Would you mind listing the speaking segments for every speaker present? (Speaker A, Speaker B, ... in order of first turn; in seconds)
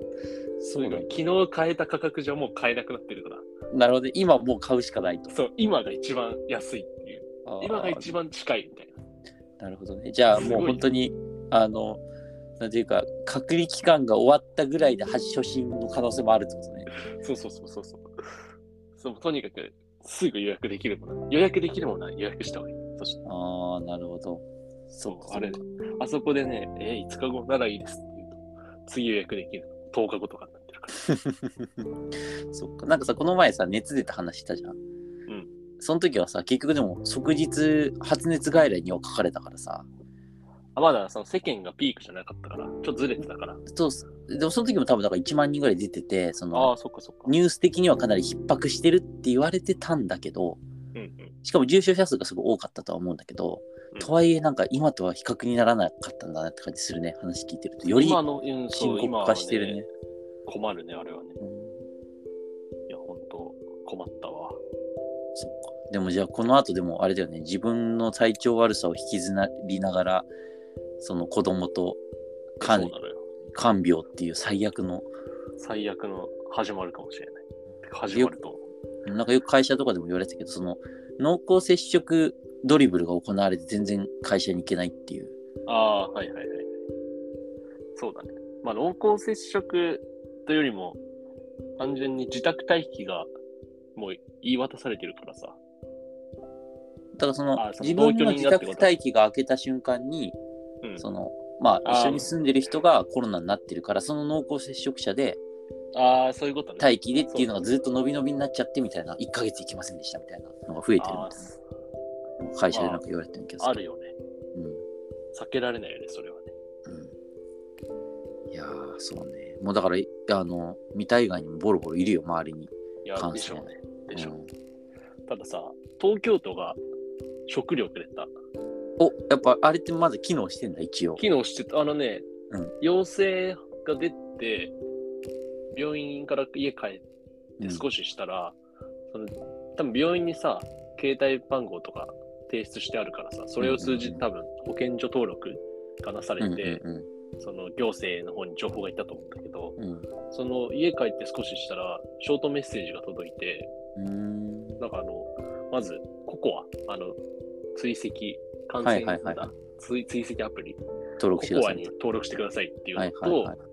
Speaker A: 0.6-1.1, 3.7-5.3, 7.5-8.2, 9.6-12.0, 12.6-16.9, 23.2-25.6, 31.0-31.7, 32.5-34.8, 35.8-39.9, 43.7-46.7, 47.2-50.6, 51.4-58.2, 58.7-59.9, 61.4-61.8, 65.3-70.3, 71.0-72.0, 72.6-72.9, 73.5-75.1, 79.0-85.3, 97.2-100.4, 101.0-105.4, 106.8-111.5, 112.4-113.7, 114.5-114.8, 116.8-117.1, 118.5-124.5, 129.0-131.2, 137.6-137.8, 143.6-144.2, 146.4-147.1, 149.8-150.1, 153.9-154.8, 158.8-159.5, 161.2-161.9, 162.9-163.6
Speaker B: 0.8-3.4, 5.3-9.0, 10.3-10.9, 17.1-18.1, 19.0-23.2, 25.1-31.0, 40.7-43.6, 46.5-47.3, 50.9-51.3, 57.9-59.8, 60.5-61.4, 62.9-64.6, 72.6-73.2, 75.6-78.6, 85.7-86.7, 88.0-91.0, 91.8-93.3, 94.0-95.6, 97.5-98.9, 101.8-102.3, 105.9-107.5, 111.0-111.6, 112.7-113.0, 113.6-114.1, 115.3-116.5, 123.0-124.3, 125.3-126.8, 127.5-128.3, 131.2-132.2, 132.8-134.7, 135.7-137.0, 137.6-138.6, 139.1-146.8, 147.4-149.8, 150.3-153.7, 154.8-157.2, 157.7-160.8, 161.4-163.5